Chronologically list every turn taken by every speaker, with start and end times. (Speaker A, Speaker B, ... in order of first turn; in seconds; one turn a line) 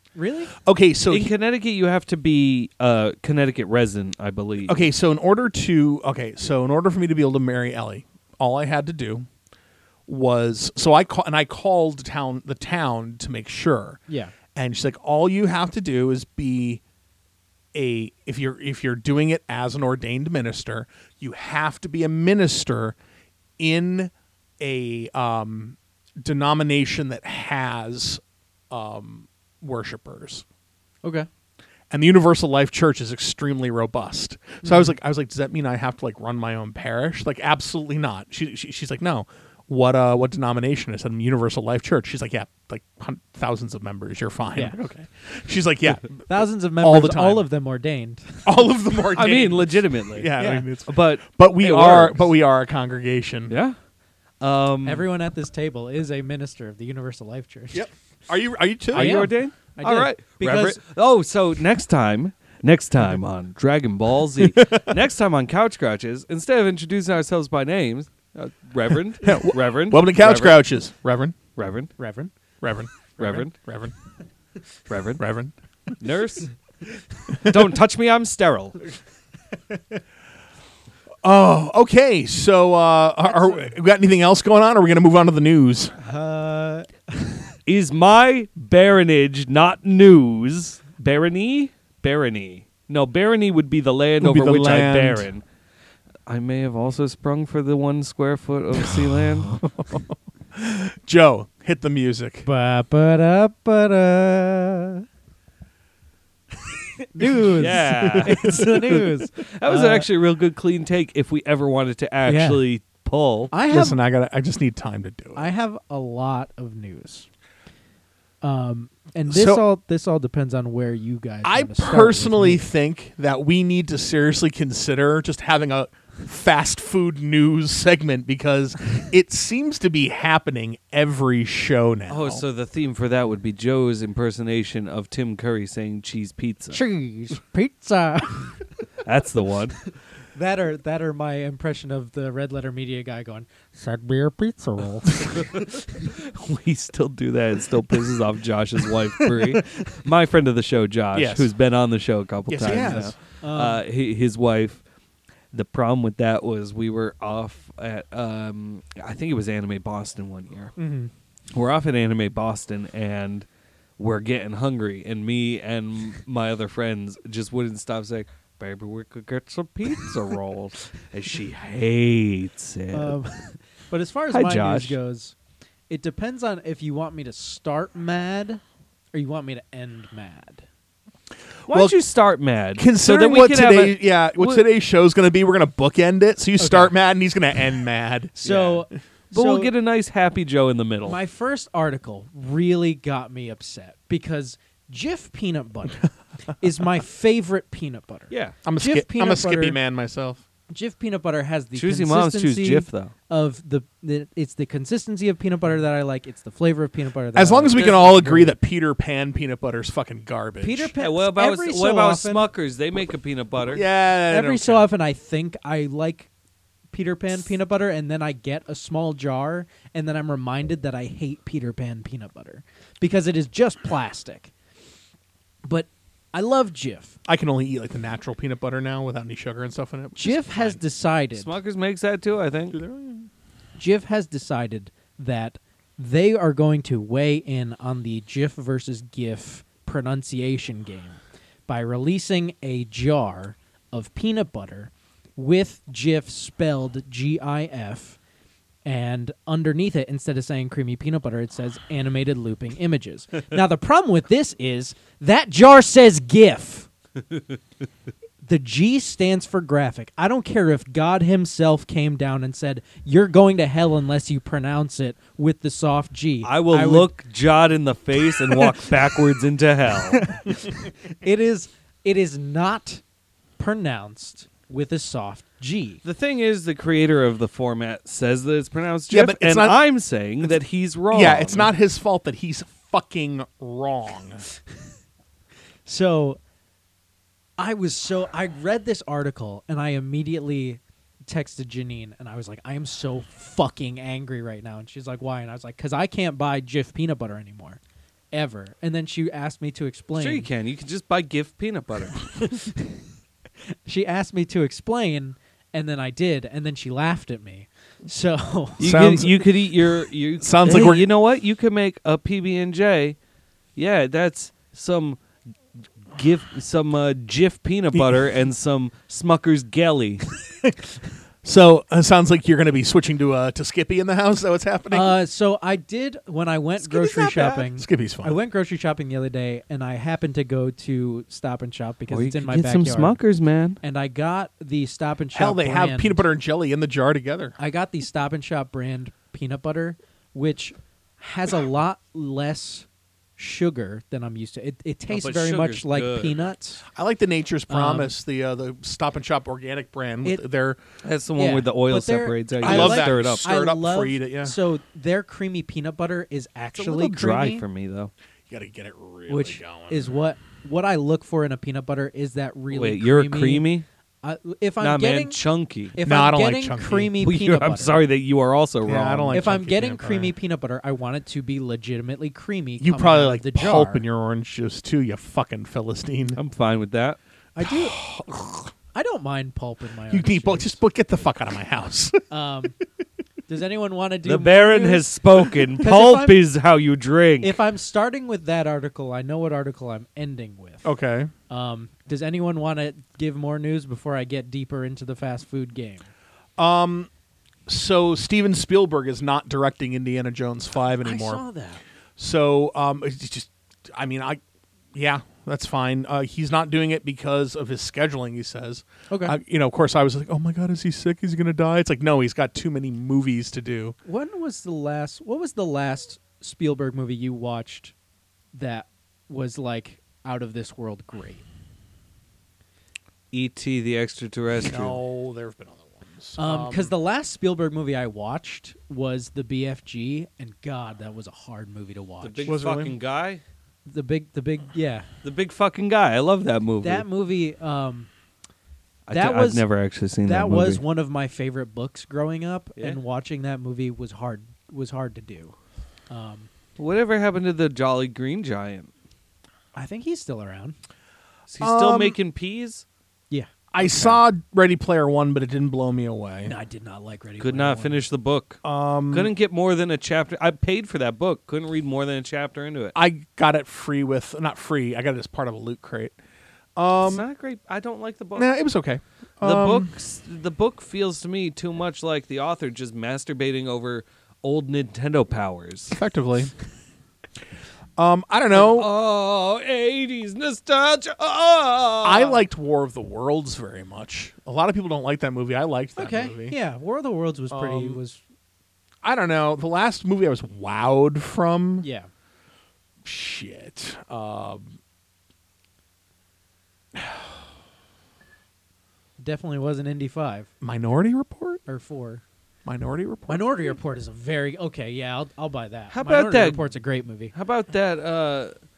Speaker A: 0.1-0.5
Speaker B: 0.6-1.3
Speaker C: 1.1-4.8
Speaker B: 4.6-9.3
Speaker B: 10.1-14.0
Speaker A: 14.1-14.3
Speaker B: 14.5-16.8
Speaker B: 17.7-23.0
Speaker B: 23.6-30.4
Speaker B: 31.9-46.2
Speaker A: 34.6-34.9
Speaker A: 46.2-48.5
Speaker B: 46.8-47.5
Speaker B: 48.4-53.5
Speaker C: 49.1-50.3
Speaker A: 50.4-50.6
Speaker C: 50.9-52.3
Speaker C: 53.5-53.7
Speaker C: 54.4-55.0
Speaker A: 54.8-57.9
Speaker B: 57.7-59.2
Speaker A: 58.9-60.8
Speaker C: 58.9-70.6
Speaker B: 64.4-65.0
Speaker B: 69.2-71.4
Speaker C: 71.5-71.9
Speaker A: 72.0-72.3
Speaker B: 72.6-73.9
Speaker C: 73.2-73.5
Speaker C: 74.9-75.2
Speaker B: 75.2-75.9
Speaker C: 76.0-76.5
Speaker B: 77.3-77.6
Speaker C: 77.4-78.8
Speaker B: 81.2-85.9
Speaker A: 83.3-83.7
Speaker A: 86.0-87.4
Speaker C: 87.7-95.4
Speaker B: 94.2-95.3
Speaker C: 96.3-99.6
Speaker B: 98.8-102.5
Speaker A: 102.4-105.0
Speaker A: 107.1-110.1
Speaker C: 107.6-113.5
Speaker B: 107.9-108.6
Speaker A: 112.2-112.6
Speaker A: 113.5-114.0
Speaker B: 113.7-115.4
Speaker A: 115.3-117.3
Speaker A: 118.4-122.6
Speaker B: 119.3-119.6
Speaker B: 121.4-132.4
Speaker C: 132.1-136.8
Speaker A: 136.7-138.6
Speaker C: 139.0-139.8
Speaker A: 140.3-145.7
Speaker C: 145.2-154.8
Speaker A: 149.2-149.6
Speaker B: 151.1-151.5
Speaker B: 152.5-153.1
Speaker A: 152.8-153.8
Speaker C: 155.5-160.7
Speaker A: 160.8-161.1
Speaker C: 161.5-163.4
Speaker C: 164.0-173.2
Speaker A: 172.9-175.3
Speaker C: 174.3-175.0
Speaker A: 175.9-178.6
Speaker A: 179.1-180.6
Speaker B: 181.7-181.9
Speaker C: 181.7-184.6
Speaker B: 182.8-188.3
Speaker A: 186.6-186.9
Speaker A: 188.3-189.7
Speaker C: 188.4-191.2
Speaker A: 191.0-199.8
Speaker C: 198.3-198.6
Speaker B: 198.6-200.4
Speaker A: 200.7-208.6
Speaker C: 201.7-203.1
Speaker B: 207.3-210.9
Speaker A: 210.6-212.4
Speaker C: 211.0-213.8
Speaker B: 213.7-214.8
Speaker A: 214.3-216.3
Speaker A: 216.9-224.5
Speaker A: 225.6-227.2
Speaker B: 227.2-230.8
Speaker A: 230.2-231.5
Speaker C: 231.3-232.8
Speaker B: 232.7-233.3
Speaker A: 233.8-248.2
Speaker A: 248.8-256.9
Speaker A: 258.4-267.1
Speaker C: 266.4-270.2
Speaker A: 268.5-268.9
Speaker A: 270.1-273.0
Speaker A: 273.6-276.0
Speaker C: 276.0-281.7
Speaker B: 279.1-279.8
Speaker B: 281.1-284.4
Speaker A: 285.9-286.4
Speaker A: 287.6-297.8
Speaker A: 298.3-300.5
Speaker C: 300.1-302.3
Speaker A: 302.3-303.0
Speaker A: 303.9-308.9
Speaker C: 308.8-313.1
Speaker B: 308.8-309.4
Speaker B: 310.4-311.1
Speaker C: 313.8-315.2
Speaker C: 316.1-320.2
Speaker B: 317.9-318.2
Speaker B: 321.4-325.1
Speaker A: 324.9-333.2
Speaker C: 326.8-327.6
Speaker B: 327.7-328.4
Speaker C: 332.1-333.8
Speaker A: 333.8-336.2
Speaker B: 335.3-337.6
Speaker A: 337.6-346.8
Speaker C: 345.1-346.3
Speaker B: 346.9-350.8
Speaker A: 347.7-348.1
Speaker C: 351.0-353.4
Speaker A: 351.4-357.6
Speaker B: 352.6-354.5
Speaker C: 356.8-358.1
Speaker B: 358.5-360.1
Speaker A: 359.3-363.7
Speaker C: 362.7-363.8
Speaker A: 364.2-365.4
Speaker C: 364.8-366.0
Speaker A: 365.9-368.0
Speaker B: 366.0-367.1
Speaker C: 367.2-369.4
Speaker B: 368.8-370.3
Speaker A: 369.3-374.0
Speaker B: 372.8-376.4
Speaker C: 376.4-377.2
Speaker A: 377.6-378.0
Speaker B: 377.6-378.7
Speaker A: 378.9-380.8
Speaker B: 380.1-382.2
Speaker A: 382.3-382.7
Speaker A: 383.5-385.1
Speaker C: 384.2-387.5
Speaker A: 385.8-386.4
Speaker A: 387.4-390.9
Speaker B: 390.8-391.3
Speaker A: 391.5-396.1
Speaker B: 396.6-397.1
Speaker B: 397.7-401.4
Speaker A: 401.0-401.8
Speaker B: 402.2-404.4
Speaker B: 404.9-413.9
Speaker A: 409.1-409.4
Speaker A: 414.0-417.9
Speaker A: 418.5-421.4
Speaker C: 423.3-425.0
Speaker B: 424.6-426.9
Speaker A: 426.4-432.5
Speaker C: 432.2-433.4
Speaker B: 432.5-433.0
Speaker A: 433.9-435.1
Speaker C: 435.2-437.0
Speaker A: 436.8-438.1
Speaker C: 439.1-440.8
Speaker A: 439.1-439.6
Speaker A: 440.2-445.5
Speaker A: 446.1-446.5
Speaker C: 446.8-448.9
Speaker A: 449.7-450.8
Speaker C: 451.5-452.8
Speaker B: 451.6-452.1
Speaker B: 453.7-456.5
Speaker C: 453.8-454.2
Speaker A: 456.4-458.0
Speaker C: 457.4-462.9
Speaker B: 458.6-459.3
Speaker B: 462.9-466.2
Speaker B: 466.8-467.2
Speaker C: 467.0-468.5
Speaker B: 468.4-469.9
Speaker C: 469.4-476.0
Speaker B: 475.9-476.5
Speaker B: 478.0-478.9
Speaker C: 478.5-482.4
Speaker B: 482.0-486.5
Speaker A: 486.0-488.2
Speaker B: 487.5-488.0
Speaker B: 489.0-491.9
Speaker A: 491.8-492.1
Speaker B: 493.0-494.8
Speaker B: 496.9-497.3
Speaker A: 499.2-500.5
Speaker B: 500.6-501.6
Speaker A: 501.7-502.2
Speaker B: 502.6-503.7
Speaker A: 503.3-507.3
Speaker C: 505.9-506.7
Speaker C: 507.3-508.5